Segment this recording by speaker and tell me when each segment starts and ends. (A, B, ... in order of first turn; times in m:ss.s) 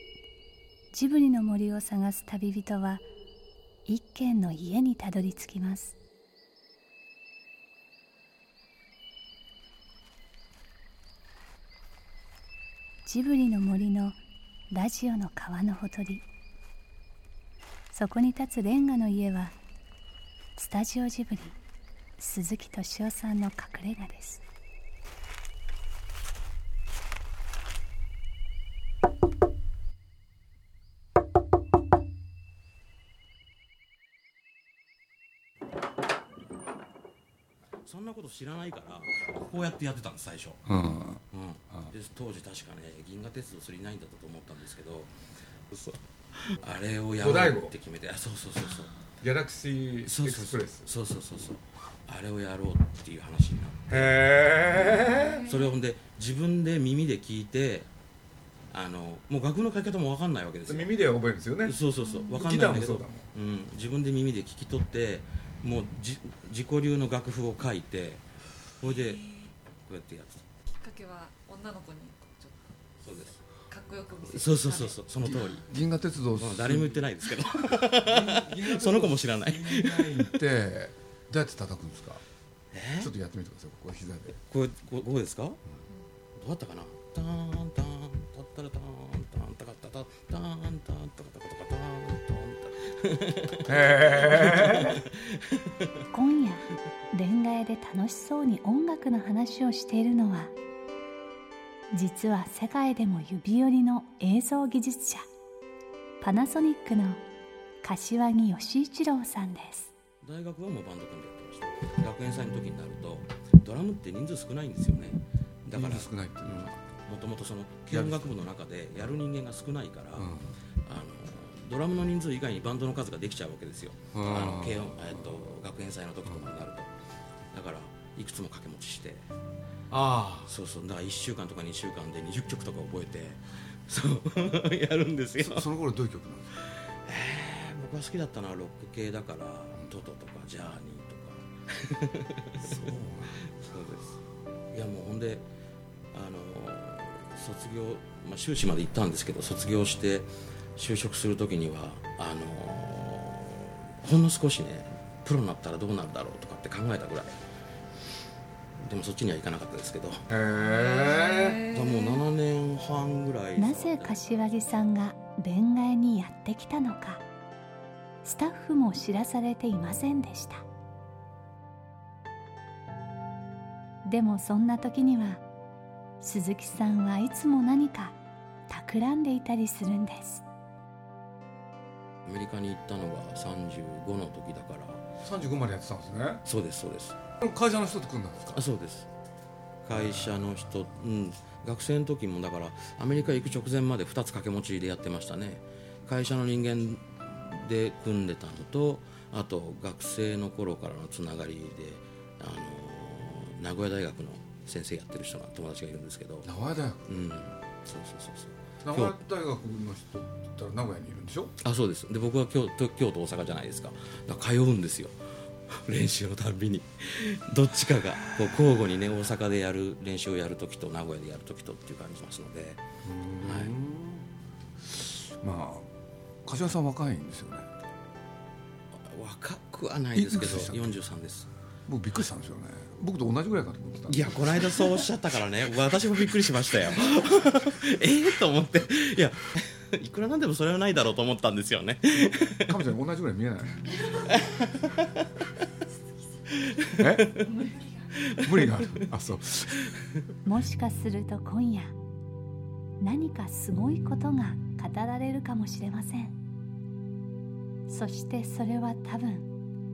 0:00.9-0:03.0 A
0:03.8-0:06.0 A
0:13.0-0:14.2 A
0:14.7-0:16.2 A
0:17.9-0:19.5 A
0:20.6-0:21.6 A
0:22.2-0:24.4 A
0:37.8-0:40.7 B
0:40.7-0:41.9 C
0:41.3-0:45.1 B
0:45.7-0:49.0 B
0:47.2-0:47.7 C
0:49.2-0:50.9 C
0:50.0-0:54.1 B
0:53.9-0:55.5 C
0:54.7-0:57.9 B
0:55.1-0:55.6 D
0:58.7-1:01.0 B
1:00.7-1:03.2 C
1:01.6-1:08.2 B
1:08.8-1:09.3 B
1:08.9-1:09.5 D
1:09.9-1:10.4 B
1:10.7-1:12.6 D
1:13.0-1:13.4 B
1:13.7-1:15.0 D
1:14.3-1:15.6 B
1:15.2-1:17.0 C
1:16.4-1:20.4 B
1:17.6-1:22.2 C
1:22.7-1:23.1 B
1:23.0-1:24.4 C
1:24.5-1:25.6 B
1:26.3-1:36.0 B
1:33.6-1:35.0 C
1:36.1-1:40.5 A
1:41.9-1:45.2 A
1:46.2-1:47.2 A
1:47.8-1:49.9 A
1:50.2-2:06.9 B
1:55.7-1:56.8 C
1:57.9-1:58.3 C
2:00.2-2:00.6 C
2:04.1-2:05.4 C
2:07.5-2:09.3 B
2:09.9-2:10.5 C
2:10.5-2:15.7 B
2:15.4-2:16.6 C
2:16.6-2:24.2 B
2:22.6-2:23.4 C
2:24.7-2:25.4 B
2:26.1-2:37.4 B
2:38.8-2:40.3 B
2:40.3-2:41.6 C
2:40.8-2:42.2 D
2:41.7-2:44.3 B
2:43.6-2:47.2 A
2:48.2-2:50.6 A
2:54.0-2:55.4 A
2:56.2-2:58.2 A
2:58.7-3:00.4 A
3:02.2-3:05.0 B
3:05.2-3:06.4 C
3:06.4-3:07.2 B
3:07.4-3:08.6 C
3:08.5-3:09.1 B
3:09.8-3:26.5 B
3:26.4-3:27.0 C
3:27.1-3:29.2 B
3:28.8-3:31.5 C
3:31.6-3:35.2 B
3:35.7-3:42.8 B
3:43.0-3:44.3 C
3:43.4-3:43.8 B
3:44.9-3:45.9 C
3:46.4-3:47.7 C
3:49.0-3:51.5 B
3:50.1-3:50.9 C
3:51.9-3:55.0 C
3:54.1-4:02.8 B
4:02.7-4:04.0 C
4:04.2-4:05.2 B
4:06.5-4:07.5 B
4:07.0-4:07.4 C
4:07.4-4:08.1 D
4:08.2-4:08.8 B
4:08.4-4:09.8 C
4:10.4-4:11.9 A
4:13.0-4:16.4 A
4:17.9-4:19.5 A